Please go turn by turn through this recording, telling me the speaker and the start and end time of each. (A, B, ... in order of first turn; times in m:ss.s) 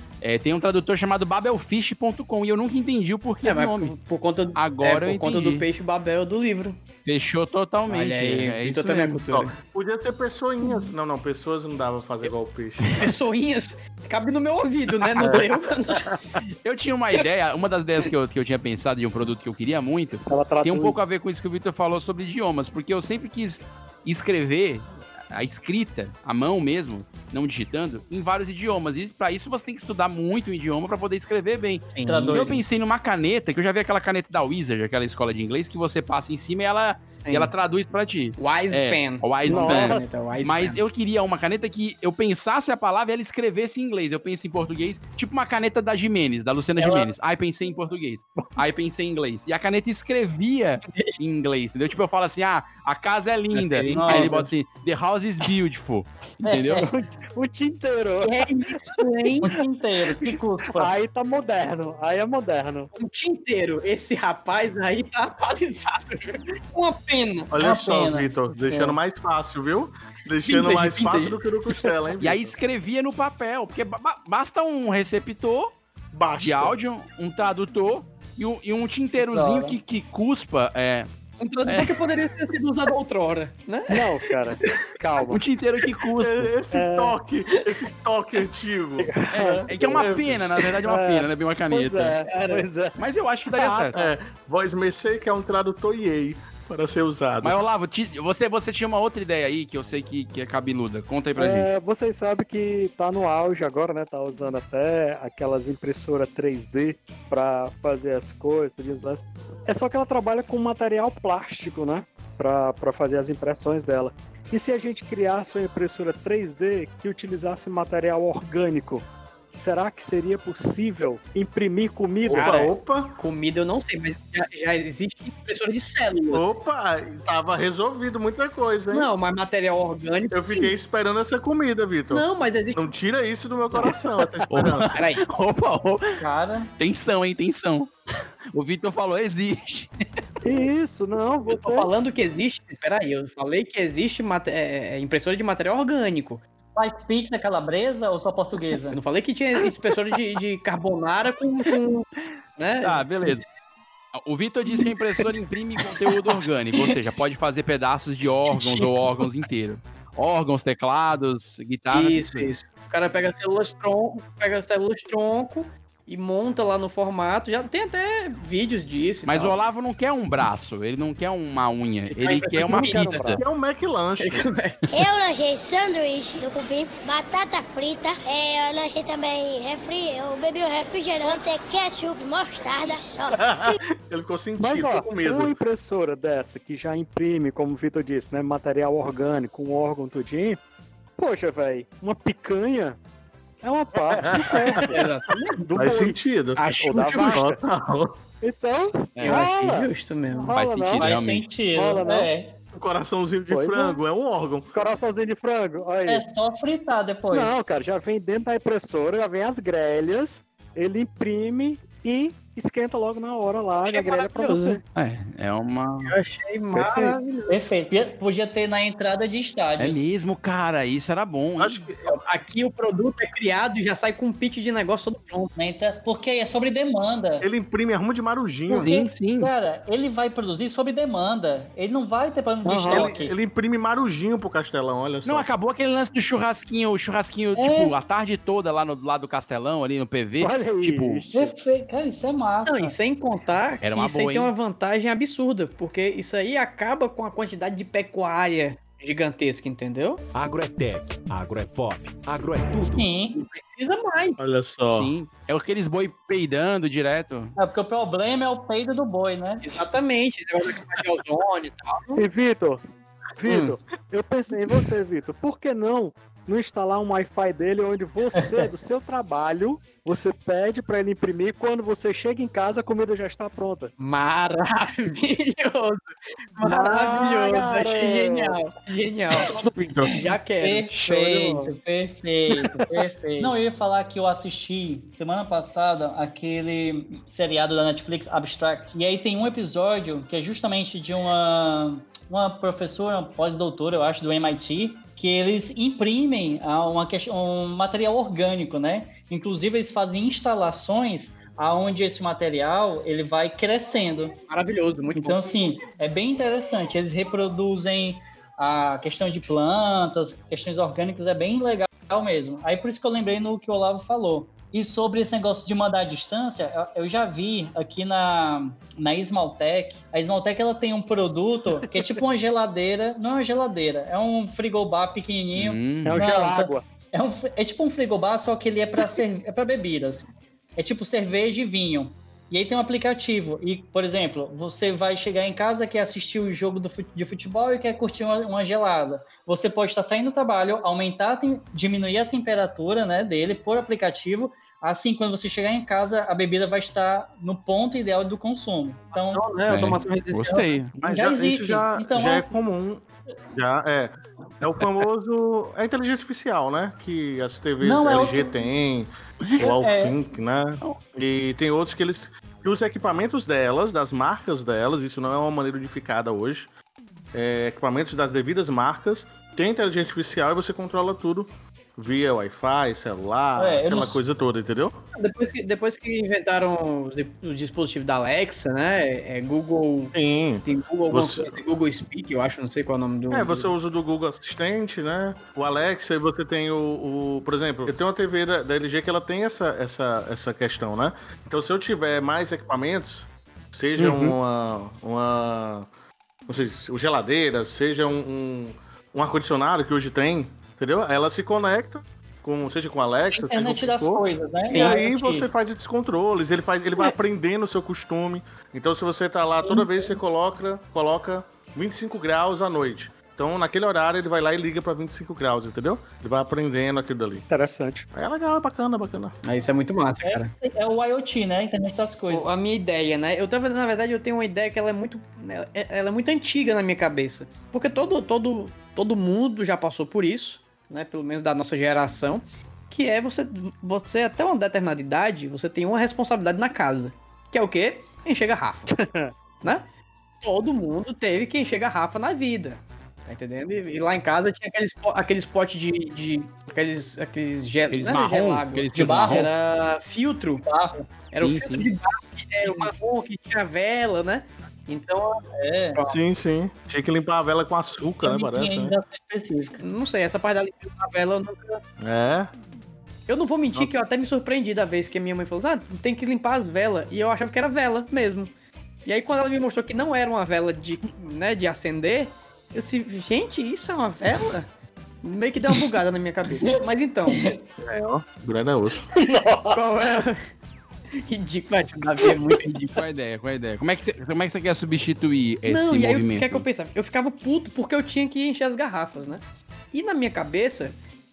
0:00.2-0:03.9 A
0:03.4-0:06.8 B
0:04.5-0:05.6 A
0:07.0-0:09.2 A
0:07.9-0:09.5 B
0:09.3-0:12.9 C
0:10.6-0:10.9 B
0:13.0-0:16.0 B
0:16.6-0:56.8 A
0:20.3-0:21.1 D
0:31.9-0:32.6 B
0:32.0-0:32.6 E
0:37.1-0:37.5 B
0:38.4-0:40.8 B
0:39.4-0:40.1 D
0:46.8-0:47.1 E
0:50.9-0:51.1 B
0:53.5-0:54.2 B
0:53.9-0:54.5 E
0:56.4-0:56.9 E
0:56.9-0:58.5 D
0:58.2-0:59.5 B
0:59.0-0:59.4 D
0:59.4-1:00.9 E
1:00.2-1:02.9 D
1:03.0-1:07.5 B
1:07.5-1:12.5 C
1:07.6-1:08.3 E
1:10.4-1:11.9 B
1:12.2-1:15.7 A
1:16.1-1:16.8 C
1:16.4-1:21.1 A
1:19.2-1:19.7 E
1:21.4-1:24.0 B
1:23.9-1:25.4 D
1:25.3-1:26.5 A
1:26.2-1:29.1 C
1:26.7-1:27.2 D
1:29.0-1:30.0 D
1:29.3-1:32.1 A
1:29.7-1:30.4 C
1:30.8-1:33.0 D
1:32.3-1:32.6 B
1:33.0-1:34.0 A
1:33.5-1:33.9 D
1:33.9-1:37.6 C
1:37.4-1:41.7 A
1:41.4-2:02.5 D
2:02.3-2:03.1 C
2:02.3-2:06.5 B
2:06.3-2:09.1 C
2:08.9-2:10.7 B
2:10.3-2:12.2 C
2:12.1-2:13.0 B
2:12.8-2:14.9 C
2:13.7-2:14.0 B
2:14.5-2:16.0 A
2:14.9-2:15.2 B
2:16.2-2:16.7 E
2:16.8-2:17.9 A
2:18.5-2:19.9 A
2:20.4-2:21.9 D
2:21.5-2:26.4 B
2:26.8-2:29.0 E
2:28.9-2:32.0 B
2:32.6-2:33.4 B
2:32.8-2:33.4 A
2:34.1-2:42.5 A
2:38.5-2:39.1 B
2:41.9-2:49.5 B
2:49.2-2:53.4 A
2:52.1-2:53.2 B
2:52.6-2:53.4 D
2:53.4-2:54.4 C
2:54.2-2:54.8 B
2:54.9-3:03.8 F
3:03.4-3:05.5 C
3:04.6-3:10.6 D
3:11.2-3:13.0 D
3:13.6-3:15.0 D
3:14.2-3:14.9 C
3:14.9-3:15.6 B
3:15.6-3:16.2 D
3:15.7-3:18.2 C
3:16.6-3:17.4 B
3:16.8-3:17.6 D
3:18.4-3:21.1 D
3:19.1-3:19.4 A
3:19.2-3:20.5 B
3:20.5-3:21.5 A
3:21.0-3:22.6 E
3:21.7-3:22.3 D
3:22.7-3:24.7 C
3:23.5-3:24.0 D
3:24.7-3:26.2 D
3:26.1-3:27.5 E
3:27.3-3:34.8 D
3:33.8-3:34.8 B
3:34.9-3:36.1 A
3:36.0-3:37.6 B
3:36.7-3:37.2 D
3:37.5-3:40.0 E
3:39.8-3:41.8 A
3:41.6-3:42.2 C
3:42.0-3:45.5 B
3:45.6-3:47.4 E
3:47.4-3:48.9 C
3:48.8-3:49.5 A
3:48.8-3:53.3 E
3:52.6-3:53.1 D
3:52.9-3:55.4 C
3:55.2-4:01.2 A
3:57.6-3:57.9 E
4:00.4-4:01.5 D
4:01.3-4:02.9 E
4:02.6-4:10.2 B
4:03.8-4:04.5 A
4:10.3-4:13.0 G
4:12.9-4:13.4 E
4:13.3-4:14.4 B
4:14.4-4:15.1 C
4:14.9-4:17.5 A
4:17.6-4:19.6 E
4:19.6-4:22.2 B
4:22.2-4:22.8 D
4:23.4-4:33.9 D
4:23.5-4:23.7 B
4:34.0-4:39.5 B
4:36.6-4:38.6 D
4:39.5-4:40.1 C
4:40.1-4:40.9 B
4:40.6-5:04.3 E
4:41.0-4:41.7 D
4:42.5-4:43.5 D
5:04.5-5:05.6 B
5:05.1-5:49.4 E
5:25.6-5:26.2 A
5:26.0-5:26.8 D
5:49.3-5:50.7 B
5:49.7-5:51.0 A
5:51.0-6:06.7 C
5:51.1-5:52.5 E
5:57.8-5:58.6 E
5:59.6-6:00.1 E
6:07.3-6:15.0 C
6:13.6-6:14.2 E
6:15.2-6:20.1 B
6:20.1-6:21.6 C
6:20.6-6:23.7 B
6:23.3-6:35.9 C
6:34.0-6:34.4 D
6:36.5-6:57.4 C
6:43.3-6:45.5 E
6:44.7-6:45.0 B
6:49.6-6:49.9 B
6:57.5-6:58.0 D
6:58.1-6:59.3 C
6:59.4-7:00.5 B
7:00.2-7:02.5 E
7:02.3-7:18.9 B
7:18.9-7:19.3 D
7:20.4-7:30.6 B
7:27.9-7:29.5 A
7:28.9-7:29.4 E
7:30.6-7:31.0 E
7:31.3-7:35.4 B
7:31.4-7:31.9 A
7:35.6-7:36.0 E
7:36.1-7:38.9 C
7:38.2-7:39.8 E
7:39.8-7:41.8 B
7:42.0-7:42.5 C
7:43.3-7:48.5 B
7:49.0-7:54.7 B
7:55.2-7:57.5 B
7:57.8-7:59.0 C
7:59.2-7:59.8 D
7:59.7-8:00.4 B
8:01.2-8:03.0 B
8:02.9-8:06.6 A
8:05.6-8:10.9 B